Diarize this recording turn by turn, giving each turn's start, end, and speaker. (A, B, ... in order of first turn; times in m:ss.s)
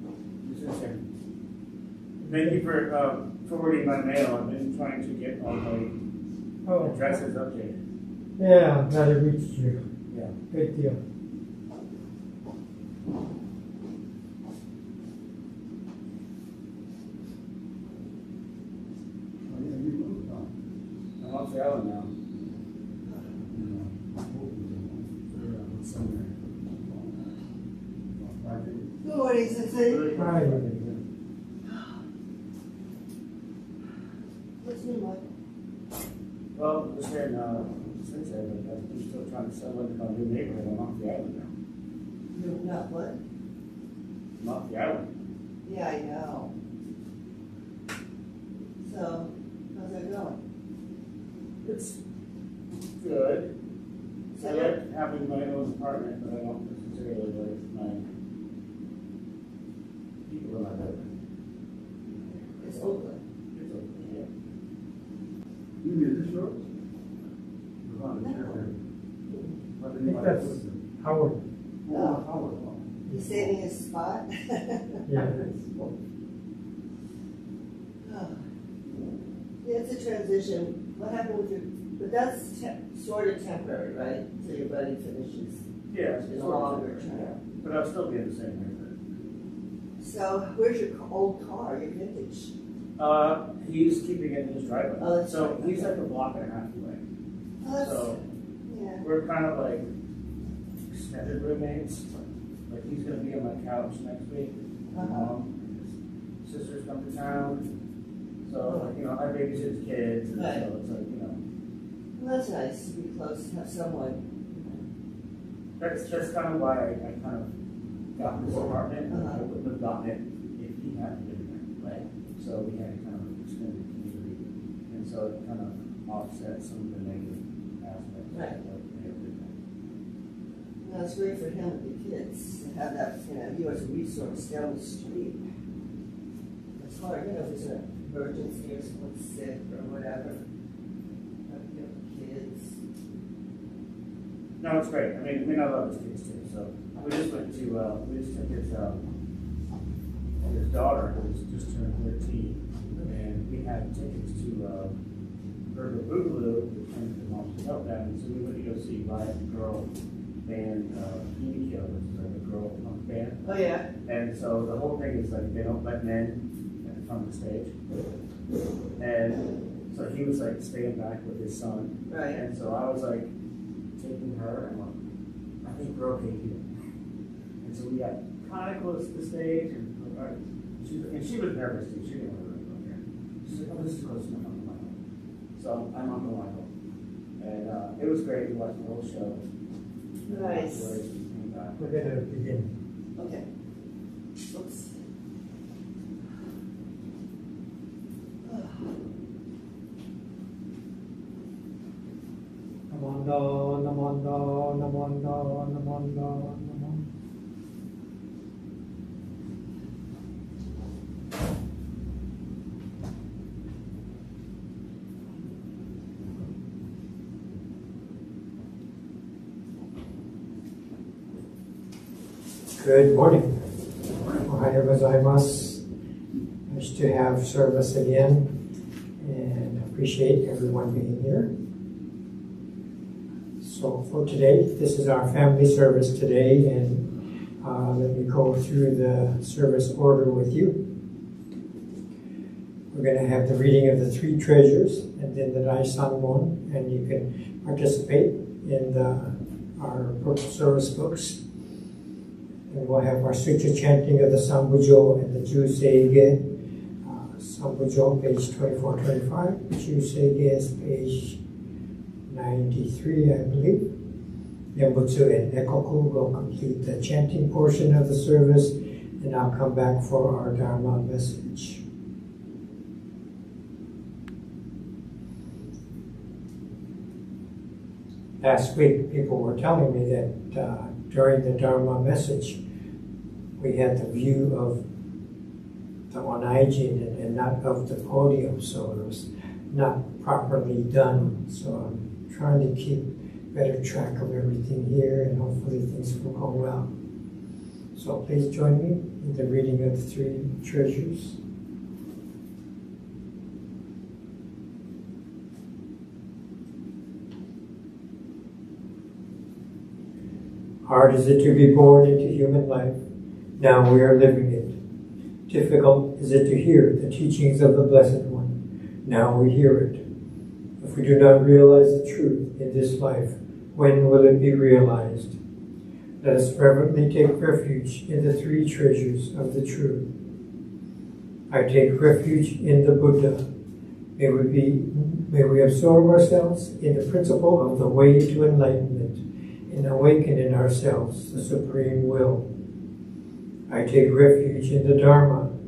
0:00.4-0:01.0 A
0:02.2-0:02.6 B
0:02.3-0:05.9 A
0:06.6-0:07.1 B
0:06.8-0:07.8 A
0:08.4-0:09.8 B
0:10.1-0:10.3 A
0:10.5-0:11.0 B
0:19.4-0:20.5 C
0:21.2-0:22.1 A
0:23.5-0:25.3 C
0:25.3-0:26.3 A
0:26.7-0:27.1 C
0:28.2-0:29.0 C
0:29.0-0:30.1 D
0:29.8-0:31.0 A
0:30.2-0:30.8 B
0:31.6-0:32.0 D
0:34.6-0:35.2 D
0:36.6-0:41.5 A
0:42.3-0:43.2 D
0:44.4-0:45.1 A
0:45.6-0:46.5 D
0:48.8-0:50.4 D
0:51.6-0:52.0 A
0:53.0-0:53.5 A
0:54.3-0:54.8 D
0:54.4-0:58.0 A
1:00.2-1:01.1 A
1:02.6-1:03.2 D
1:02.6-1:02.9 A
1:03.5-1:04.3 A
1:05.8-1:06.7 C
1:07.8-1:08.7 C
1:08.2-1:08.6 D
1:09.8-1:10.8 C
1:10.0-1:11.4 B
1:11.8-1:13.4 C
1:11.9-1:12.3 D
1:13.1-1:15.0 D
1:15.1-1:15.5 B
1:18.0-1:18.4 D
1:19.6-1:25.6 D
1:25.9-1:28.9 A
1:26.2-1:27.4 D
1:30.0-1:32.5 D
1:33.0-1:37.0 A
1:35.0-1:36.0 D
1:37.6-1:39.0 D
1:37.7-1:38.2 A
1:39.0-1:39.8 A
1:40.9-1:45.8 A
1:44.9-1:45.3 D
1:46.4-1:47.7 A
1:48.4-1:51.4 A
1:48.6-1:48.9 D
1:50.4-1:50.6 D
1:52.2-1:54.2 D
1:55.8-1:57.5 A
1:58.2-2:09.5 A
1:59.1-1:59.4 D
2:08.3-2:08.6 D
2:10.8-2:15.4 D
2:16.8-2:20.4 D
2:21.5-2:22.8 D
2:24.6-2:29.0 A
2:30.4-2:34.9 A
2:35.7-2:39.9 A
2:40.4-2:43.5 A
2:43.4-2:43.9 D
2:44.0-2:47.7 A
2:49.0-2:53.3 A
2:52.1-2:52.4 D
2:54.0-2:55.0 A
2:55.6-2:56.7 A
2:57.6-3:05.0 A
3:05.6-3:06.7 A
3:07.4-3:09.4 A
3:10.2-3:11.8 A
3:10.3-3:11.0 D
3:11.8-3:12.7 B
3:13.2-3:13.5 D
3:14.5-3:15.0 D
3:18.4-3:18.9 D
3:22.9-3:27.0 B
3:42.8-3:43.5 B
3:44.4-3:45.8 B
3:46.7-3:48.5 B
3:49.2-3:51.5 B
3:53.6-3:57.1 B
3:57.6-4:00.8 B
4:02.9-4:11.4 B
4:12.7-4:16.4 B
4:17.0-4:21.4 B
4:22.3-4:23.9 B
4:24.7-4:31.8 B
4:38.4-4:42.6 B
4:43.6-4:44.8 B
4:46.1-4:56.9 B
4:58.0-5:01.4 B
5:10.8-5:13.0 B
5:13.6-5:14.8 B
5:15.5-5:18.5 B
5:19.0-5:20.0 B
5:20.8-5:25.4 B
5:26.2-5:30.0 B
5:31.5-5:33.4 B
5:34.2-5:42.4 B
5:43.7-5:45.5 B